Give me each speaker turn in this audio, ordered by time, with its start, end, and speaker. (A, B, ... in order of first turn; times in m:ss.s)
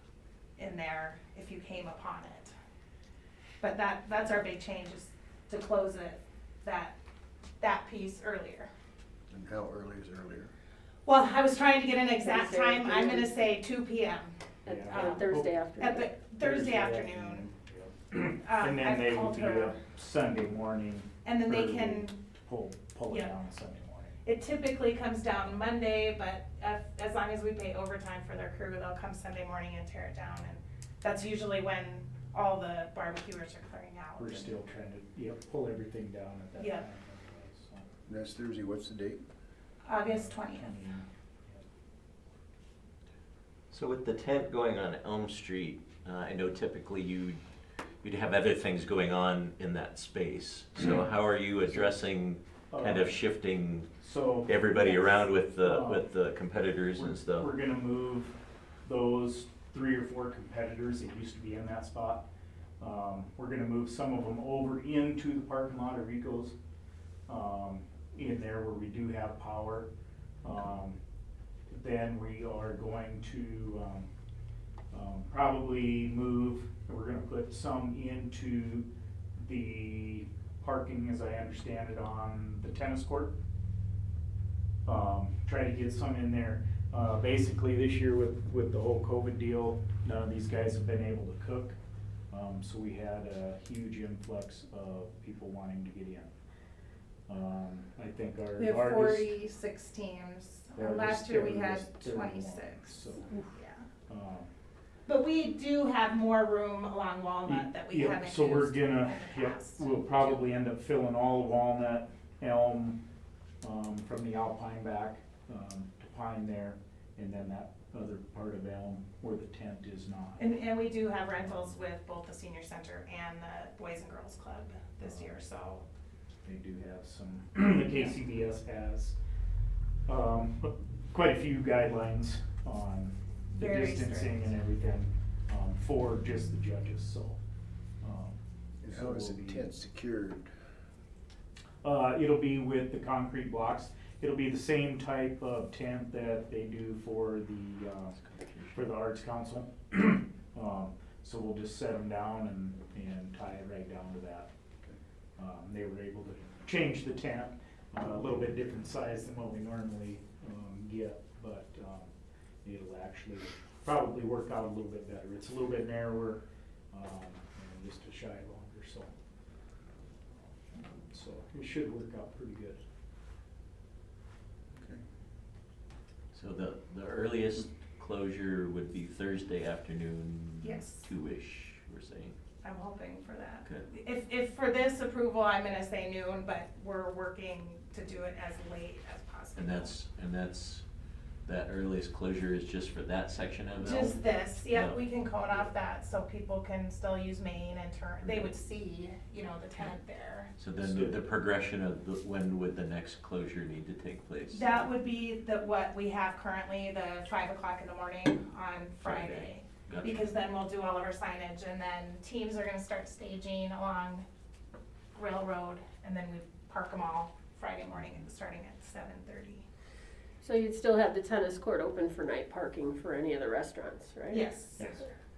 0:00.6-0:02.5 A
0:03.6-0:07.0 A
0:07.6-0:08.7 A
0:09.3-0:10.5 B
0:11.0-0:14.4 A
0:12.2-0:13.5 C
0:14.7-0:16.1 C
0:14.7-0:24.2 D
0:14.9-0:17.5 A
0:18.4-0:19.8 A
0:21.2-0:22.2 A
0:24.2-0:34.6 A
0:34.2-0:37.9 D
0:36.6-0:36.8 A
0:38.1-0:39.2 B
0:39.8-0:40.8 A
0:40.1-0:41.6 D
0:43.7-0:47.4 E
0:48.0-0:53.9 E
0:52.7-0:53.2 D
0:54.0-0:56.1 D
0:54.4-0:57.5 E
0:56.9-1:02.3 D
1:02.8-1:06.5 D
1:07.3-1:09.9 D
1:10.4-1:11.0 D
1:11.7-1:14.1 D
1:14.9-1:23.4 D
1:24.9-1:31.8 D
1:32.3-1:36.3 D
1:37.3-1:39.4 D
1:38.6-1:43.9 A
1:40.8-1:43.3 D
1:44.1-1:44.5 D
1:45.1-1:50.4 A
1:47.4-1:53.0 D
1:53.6-2:00.5 D
2:00.4-2:05.8 A
2:01.3-2:01.8 D
2:05.0-2:05.3 D
2:06.4-2:09.2 D
2:10.1-2:17.4 D
2:13.5-2:14.6 A
2:18.0-2:19.7 D
2:18.8-2:20.5 B
2:21.8-2:28.2 D
2:28.1-2:28.9 E
2:28.7-2:34.5 D
2:35.4-2:42.1 D
2:42.6-2:49.1 D
2:51.0-2:52.8 D
2:54.8-2:55.0 B
2:56.3-3:02.4 E
3:00.6-3:01.1 A
3:02.6-3:09.9 A
3:09.6-3:10.8 E
3:11.5-3:15.0 E
3:13.8-3:20.5 A
3:18.2-3:18.5 E
3:20.6-3:24.7 E
3:20.8-3:21.3 D
3:24.5-3:34.3 A
3:29.0-3:30.3 E
3:35.2-3:39.6 A
3:40.4-3:44.6 C
3:44.3-3:45.0 A